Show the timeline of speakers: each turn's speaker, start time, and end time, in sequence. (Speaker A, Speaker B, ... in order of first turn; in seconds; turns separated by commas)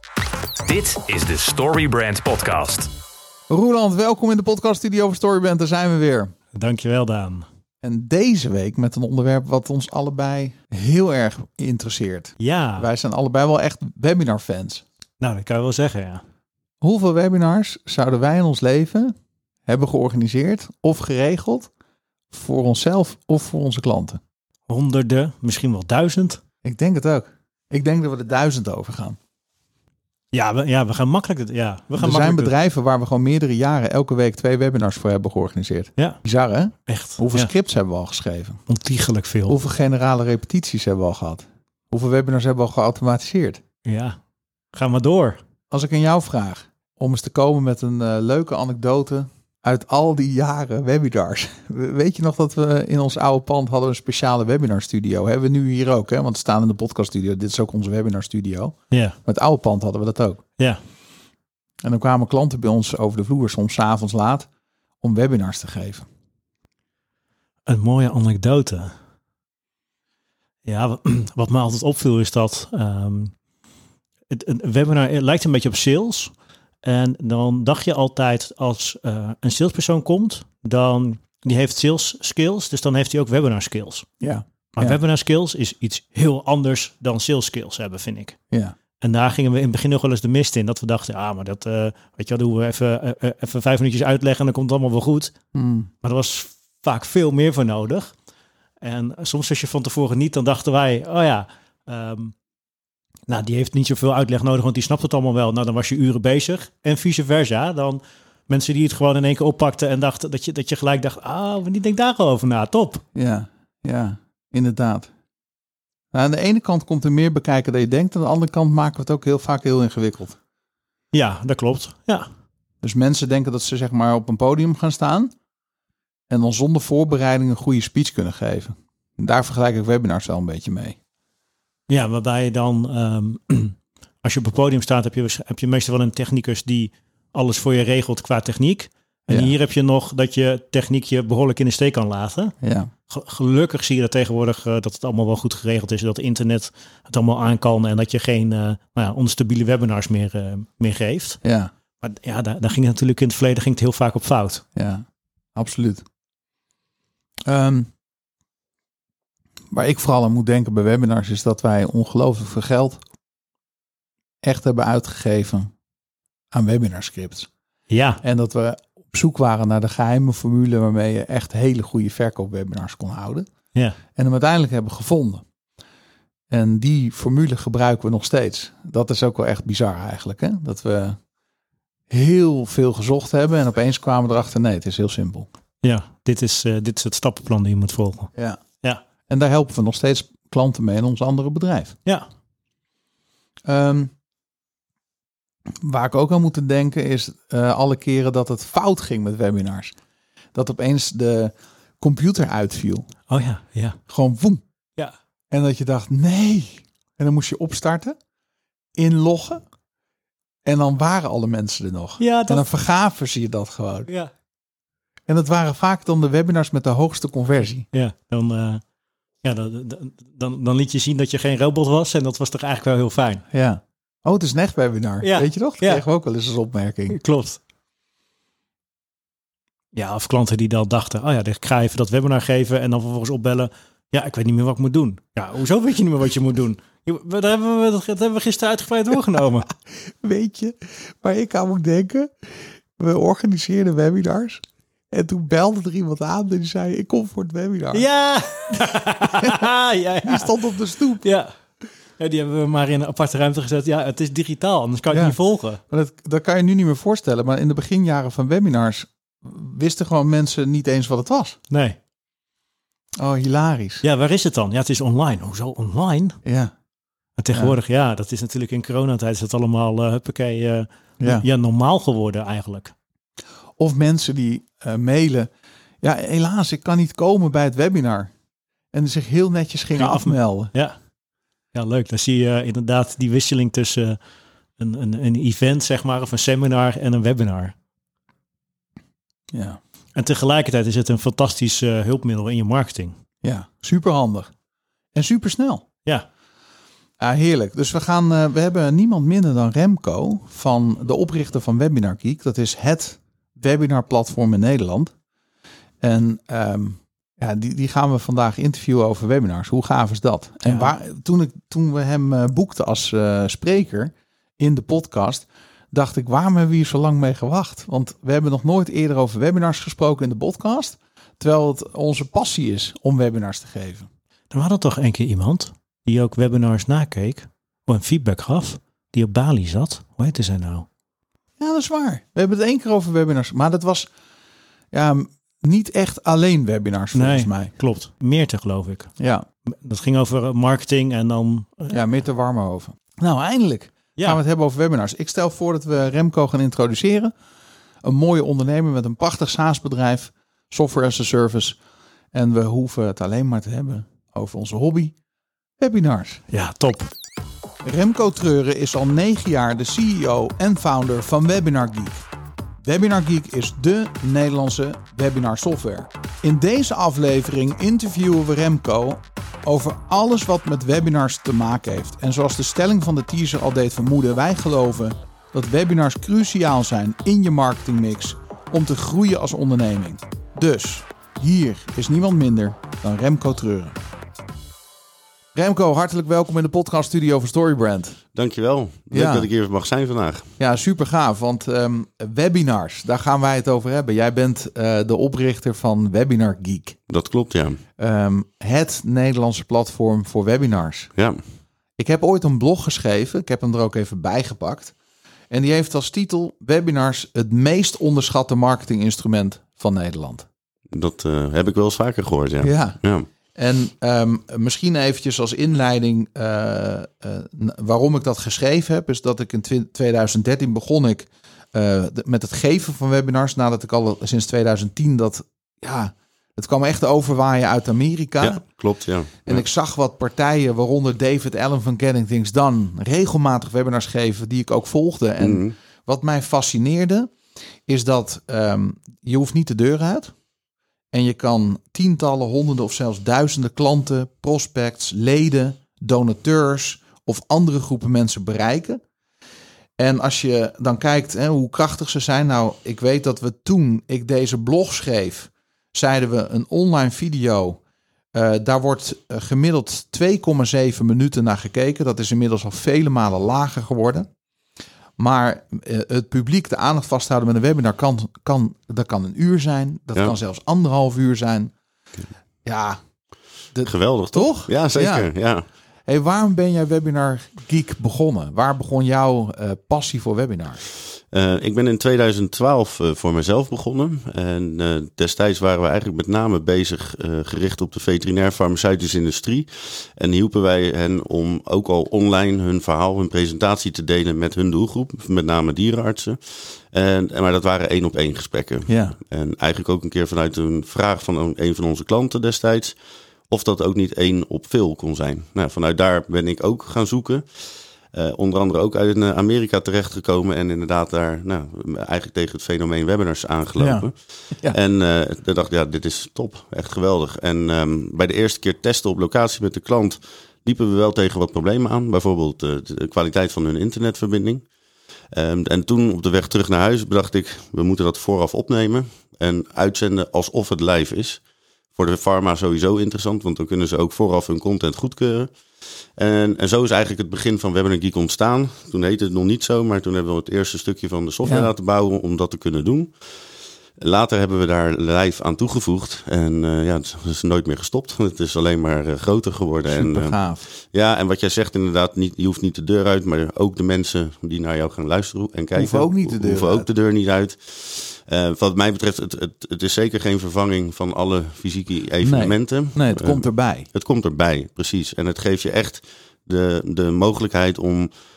Speaker A: 0.7-2.9, Speaker B: 3.5-6.3, Speaker C: 6.5-7.5, Speaker B: 7.8-14.8, Speaker C: 12.4-12.9, Speaker C: 15.2-16.2, Speaker B: 16.8-19.1, Speaker B: 19.7-21.7, Speaker B: 22.3-24.2, Speaker C: 24.7-26.4, Speaker B: 26.6-29.2, Speaker C: 30.3-32.5, Speaker B: 32.0-38.6, Speaker C: 36.9-37.5, Speaker C: 38.7-39.6, Speaker B: 39.5-43.6, Speaker C: 43.9-44.2, Speaker C: 44.7-45.4, Speaker B: 45.7-60.4, Speaker C: 58.9-59.2, Speaker B: 61.8-64.5, Speaker B: 65.0-66.1, Speaker C: 67.7-69.0, Speaker C: 70.7-73.3, Speaker C: 74.3-76.3, Speaker C: 76.8-84.1, Speaker B: 84.2-85.0, Speaker C: 84.8-88.4, Speaker C: 89.0-95.4, Speaker B: 95.5-95.9, Speaker C: 96.0-98.1, Speaker C: 98.8-102.3, Speaker C: 103.3-113.0, Speaker B: 113.2-115.1, Speaker B: 116.1-120.4, Speaker C: 121.1-122.3, Speaker B: 122.8-125.3, Speaker B: 126.3-131.0, Speaker C: 131.9-142.6, Speaker B: 142.6-142.9, Speaker C: 143.1-151.4, Speaker B: 151.4-151.7, Speaker C: 152.0-154.6, Speaker B: 154.8-156.0, Speaker B: 157.5-157.9, Speaker B: 159.7-163.0, Speaker B: 164.4-165.7, Speaker B: 166.5-167.5, Speaker C: 167.9-168.2, Speaker B: 168.2-173.5, Speaker B: 174.2-175.4, Speaker B: 176.5-181.2, Speaker B: 182.1-185.5, Speaker C: 185.8-189.0, Speaker B: 188.3-188.6, Speaker B: 189.3-192.0, Speaker B: 193.7-194.1, Speaker B: 195.8-199.9, Speaker B: 200.5-203.1, Speaker C: 203.3-204.0, Speaker B: 204.1-204.6, Speaker B: 205.5-208.2, Speaker B: 209.0-209.6, Speaker B: 210.7-214.1, Speaker C: 212.2-212.6, Speaker B: 215.3-217.9, Speaker C: 217.9-218.8, Speaker C: 219.4-223.4, Speaker B: 223.5-227.2, Speaker C: 225.2-226.1, Speaker C: 227.1-227.6, Speaker C: 229.9-239.7, Speaker B: 240.2-248.1, Speaker C: 247.9-250.5, Speaker B: 249.4-249.7, Speaker B: 250.2-251.2, Speaker C: 251.2-251.5, Speaker C: 252.2-255.8, Speaker B: 255.1-261.6, Speaker C: 261.7-262.0, Speaker B: 263.2-264.0, Speaker C: 264.0-266.4, Speaker B: 266.4-266.7, Speaker C: 267.4-272.9, Speaker B: 273.8-275.5, Speaker B: 276.0-278.3, Speaker B: 278.9-280.7, Speaker C: 280.0-281.0, Speaker C: 281.7-284.2, Speaker C: 284.8-287.7, Speaker B: 289.5-289.8, Speaker C: 290.1-293.2, Speaker B: 293.4-294.5, Speaker B: 295.1-295.9, Speaker B: 297.2-305.1, Speaker B: 306.0-324.1, Speaker C: 310.6-310.9, Speaker C: 324.5-330.9, Speaker B: 331.6-334.1, Speaker B: 334.9-337.7, Speaker C: 337.1-339.1, Speaker B: 339.2-339.5, Speaker C: 339.7-342.0, Speaker B: 341.9-347.3, Speaker B: 348.0-351.8, Speaker B: 352.3-355.1, Speaker B: 355.8-356.4, Speaker C: 356.5-357.1, Speaker B: 357.8-362.2, Speaker B: 362.8-384.0, Speaker B: 385.5-388.2, Speaker D: 388.4-390.5, Speaker B: 389.1-389.5, Speaker B: 390.6-397.0, Speaker D: 397.1-397.8, Speaker B: 398.0-401.1, Speaker B: 402.0-404.9, Speaker B: 405.5-410.5, Speaker D: 410.9-413.3, Speaker B: 412.6-413.0, Speaker B: 413.5-428.6, Speaker D: 428.4-429.6, Speaker B: 429.4-437.3, Speaker D: 435.4-435.7, Speaker B: 437.9-440.3, Speaker B: 441.1-449.0, Speaker B: 450.0-457.8, Speaker B: 458.3-464.3, Speaker B: 465.2-471.7, Speaker B: 472.6-473.0, Speaker B: 473.7-475.3, Speaker D: 473.9-475.6, Speaker B: 476.1-480.8, Speaker D: 481.3-503.0, Speaker B: 498.9-499.2, Speaker D: 503.5-524.6, Speaker B: 513.8-514.8, Speaker D: 525.3-531.4, Speaker D: 531.9-535.5, Speaker D: 536.2-543.3, Speaker B: 541.4-541.7, Speaker D: 544.0-568.1, Speaker B: 549.9-550.6, Speaker B: 555.8-556.9, Speaker B: 562.2-563.9